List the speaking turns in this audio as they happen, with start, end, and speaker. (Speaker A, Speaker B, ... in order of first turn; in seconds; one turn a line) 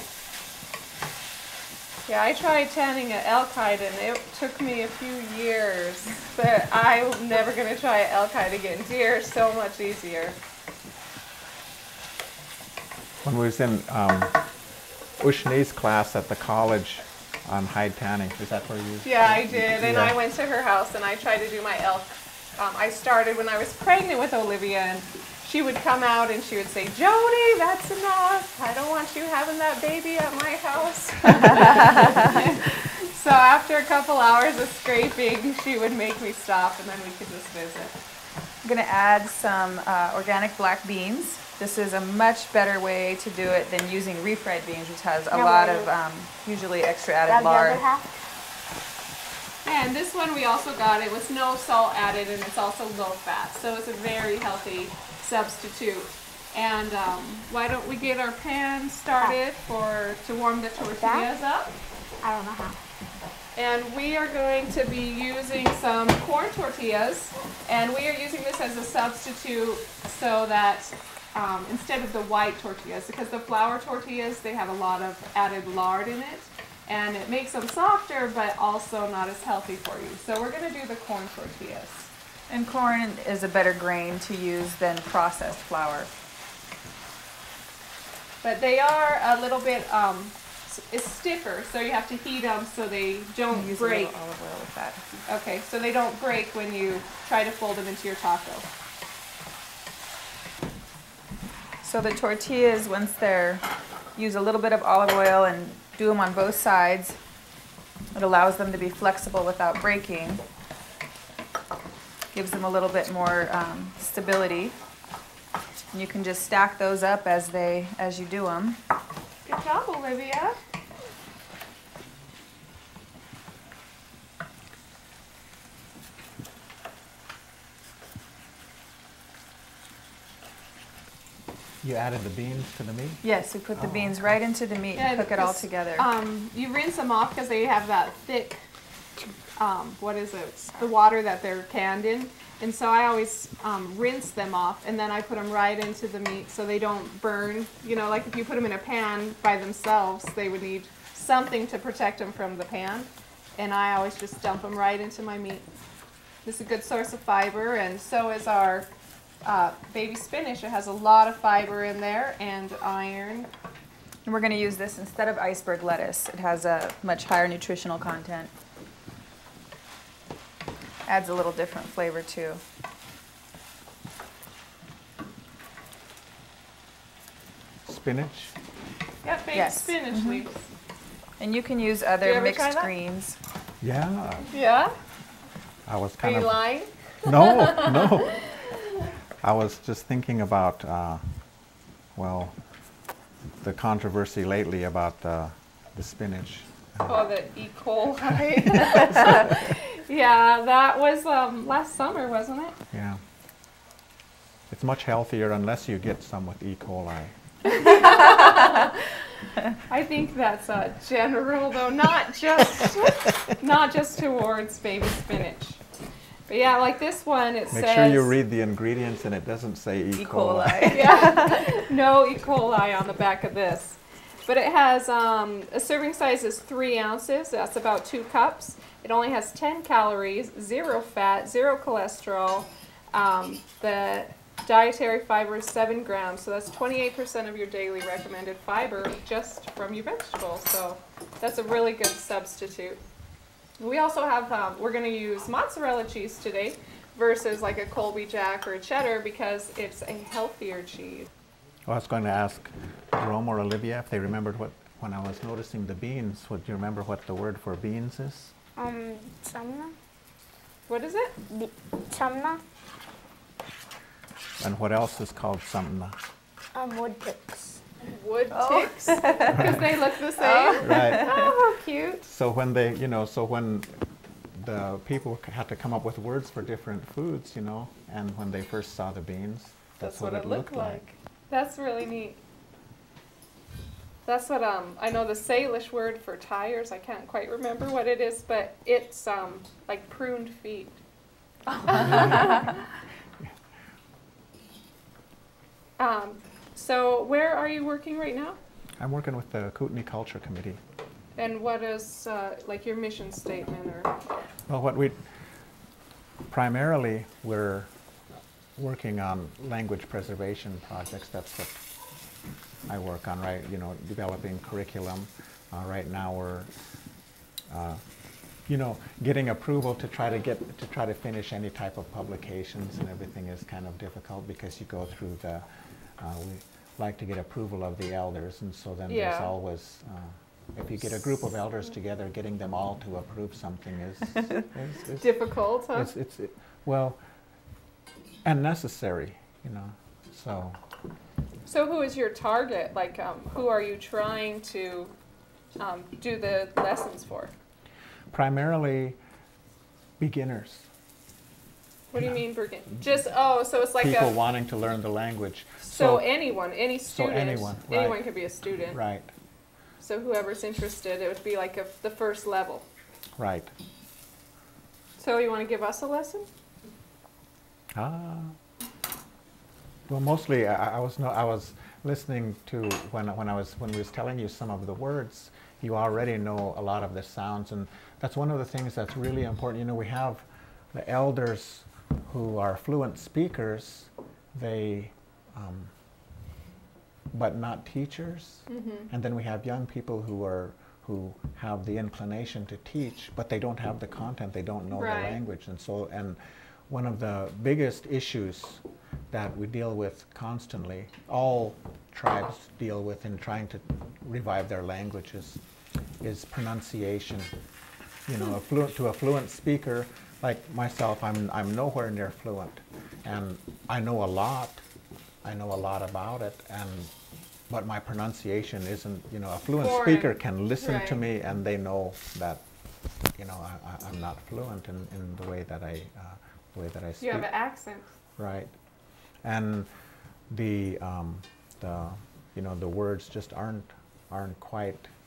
Speaker A: 2.1-10.4
Speaker B: 13.2-14.4
Speaker B: 15.2-20.2
Speaker A: 19.0-38.0
Speaker C: 31.6-32.4
Speaker C: 38.6-47.8
Speaker D: 45.3-45.9
Speaker D: 47.3-48.1
Speaker A: 49.6-61.8
Speaker D: 61.0-61.3
Speaker D: 62.2-62.8
Speaker A: 63.6-82.1
Speaker C: 82.5-86.1
Speaker A: 88.4-94.1
Speaker C: 93.5-95.0
Speaker A: 95.3-98.7
Speaker C: 101.8-103.6
Speaker C: 104.2-107.2
Speaker C: 108.2-110.4
Speaker C: 112.3-114.8
Speaker C: 115.9-118.8
Speaker A: 119.5-120.6
Speaker B: 131.8-133.2
Speaker C: 133.2-136.1
Speaker B: 133.8-134.3
Speaker A: 135.0-138.6
Speaker A: 139.6-155.7
Speaker A: 156.4-158.9
Speaker A: 159.4-163.5
Speaker C: 164.3-168.5
Speaker C: 171.1-172.6
Speaker B: 177.8-178.6
Speaker A: 179.2-180.6
Speaker C: 179.5-180.4
Speaker C: 181.4-183.4
Speaker A: 182.2-182.9
Speaker B: 183.8-184.5
Speaker A: 184.5-184.9
Speaker B: 185.9-186.7
Speaker A: 186.2-188.8
Speaker B: 187.2-188.4
Speaker B: 189.4-191.2
Speaker B: 192.2-192.6
Speaker B: 193.6-197.2
Speaker A: 197.1-202.8
Speaker B: 198.3-199.7
Speaker B: 202.9-203.2
Speaker B: 204.7-207.4
Speaker A: 207.7-209.1
Speaker A: 209.8-215.8
Speaker B: 212.8-213.4
Speaker A: 216.5-218.3
Speaker B: 217.7-221.1
Speaker C: 220.2-221.7
Speaker A: 220.9-243.0
Speaker A: 243.8-251.3
Speaker B: 251.9-258.5
Speaker D: 258.8-260.0
Speaker A: 260.9-261.4
Speaker D: 261.5-262.6
Speaker B: 264.6-266.2
Speaker D: 266.7-267.8
Speaker A: 268.0-272.3
Speaker C: 268.5-269.8
Speaker B: 269.5-270.1
Speaker C: 270.3-271.5
Speaker B: 270.8-271.5
Speaker B: 272.3-281.0
Speaker A: 280.0-282.4
Speaker A: 284.3-291.0
Speaker A: 291.8-292.8
Speaker B: 291.9-292.7
Speaker A: 296.0-298.6
Speaker B: 299.0-300.8
Speaker A: 301.4-304.1
Speaker B: 304.7-305.2
Speaker B: 306.5-307.9
Speaker B: 308.8-311.8
Speaker B: 312.9-316.7
Speaker B: 317.7-318.0
Speaker B: 318.7-325.7
Speaker B: 326.2-335.3
Speaker A: 329.1-329.5
Speaker A: 335.2-336.1
Speaker B: 335.9-337.2
Speaker B: 338.4-340.8
Speaker A: 341.7-345.1
Speaker A: 345.8-347.5
Speaker B: 348.3-349.2
Speaker B: 350.2-350.9
Speaker A: 352.1-354.4
Speaker B: 354.0-356.3
Speaker A: 355.8-359.0
Speaker B: 357.1-358.3
Speaker B: 358.9-359.3
Speaker A: 360.0-362.9
Speaker B: 363.4-363.7
Speaker A: 365.2-366.5
Speaker B: 367.9-368.6
Speaker B: 370.1-385.9
Speaker B: 387.3-405.6
Speaker A: 388.7-389.1
Speaker A: 394.9-395.4
Speaker B: 406.2-407.5
Speaker B: 408.3-414.8
Speaker B: 415.4-417.1
Speaker B: 417.7-422.6
Speaker A: 419.8-421.2
Speaker B: 423.4-427.5
Speaker A: 427.2-428.1
Speaker B: 428.4-428.7
Speaker B: 429.4-429.9
Speaker B: 430.5-435.1